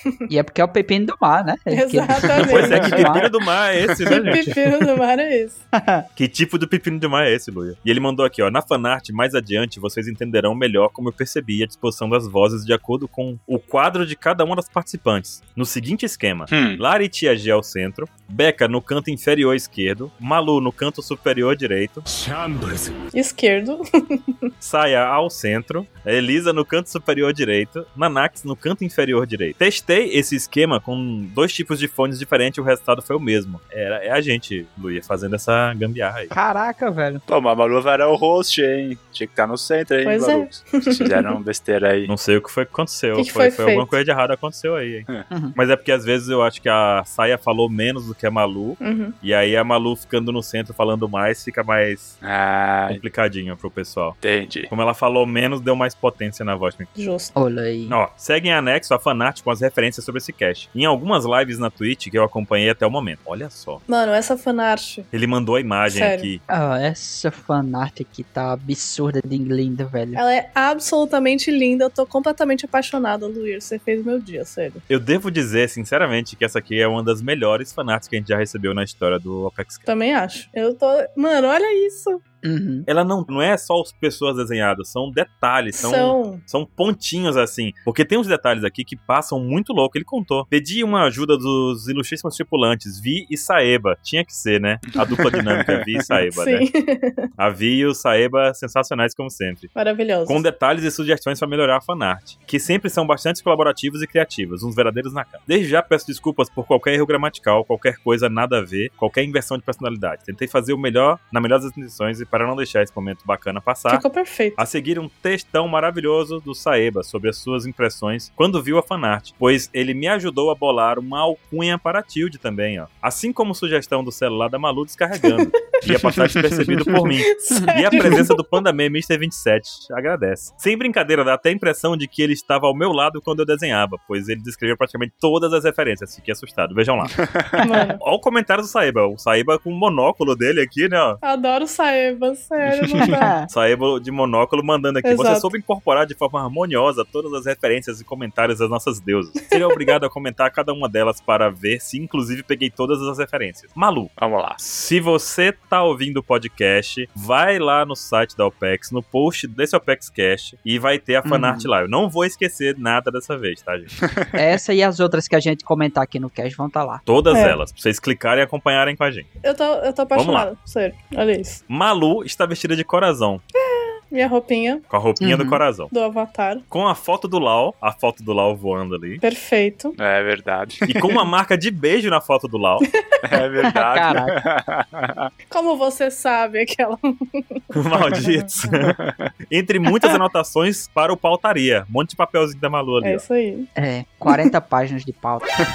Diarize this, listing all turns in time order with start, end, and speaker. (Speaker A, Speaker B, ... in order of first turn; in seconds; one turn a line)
Speaker A: 0.3-3.3
Speaker B: 1.7-3.1
Speaker C: 2.4-4.6
Speaker B: 4.1-5.6
Speaker A: 5.7-6.0
Speaker C: 6.2-22.1
Speaker D: 16.5-16.8
Speaker B: 23.1-24.5
Speaker C: 24.6-36.3
Speaker A: 36.3-37.2
Speaker D: 37.3-42.1
Speaker B: 40.0-41.3
Speaker C: 42.1-52.2
Speaker B: 43.1-43.9
Speaker A: 45.3-45.5
Speaker B: 48.8-49.1
Speaker D: 52.2-53.0
Speaker C: 52.9-56.9
Speaker D: 54.2-54.7
Speaker B: 57.0-57.3
Speaker A: 57.3-58.0
Speaker C: 57.9-63.8
Speaker B: 63.9-65.1
Speaker C: 65.1-66.4
Speaker B: 65.9-66.3
Speaker A: 66.5-70.2
Speaker B: 70.1-74.8
Speaker C: 74.9-79.9
Speaker B: 79.9-82.2
Speaker A: 82.4-82.9
Speaker C: 82.9-96.7
Speaker B: 85.7-86.4
Speaker D: 95.0-96.2
Speaker B: 96.3-97.2
Speaker C: 97.4-99.7
Speaker B: 99.7-100.4
Speaker C: 100.2-114.0
Speaker B: 113.9-114.6
Speaker C: 114.6-137.3
Speaker D: 125.8-127.0
Speaker B: 127.3-128.4
Speaker A: 127.5-127.8
Speaker D: 137.2-137.6
Speaker B: 137.6-138.0
Speaker C: 138.0-141.2
Speaker B: 141.2-143.3
Speaker D: 142.7-143.1
Speaker A: 143.0-143.5
Speaker C: 143.5-164.0
Speaker B: 145.0-145.5
Speaker D: 154.2-154.6
Speaker A: 161.2-161.7
Speaker A: 164.3-167.0
Speaker C: 167.1-169.3
Speaker B: 167.3-167.6
Speaker B: 169.4-171.6
Speaker C: 170.1-170.5
Speaker C: 171.7-173.4
Speaker B: 174.1-174.8
Speaker C: 174.9-175.9
Speaker A: 175.2-175.6
Speaker B: 175.9-176.6
Speaker C: 176.7-179.2
Speaker B: 179.2-179.9
Speaker D: 180.0-181.0
Speaker C: 180.9-182.9
Speaker D: 183.2-185.3
Speaker A: 183.7-184.3
Speaker B: 185.5-187.6
Speaker C: 187.7-189.0
Speaker B: 188.1-188.4
Speaker D: 188.8-189.3
Speaker C: 189.5-193.2
Speaker B: 193.0-193.7
Speaker A: 193.8-195.6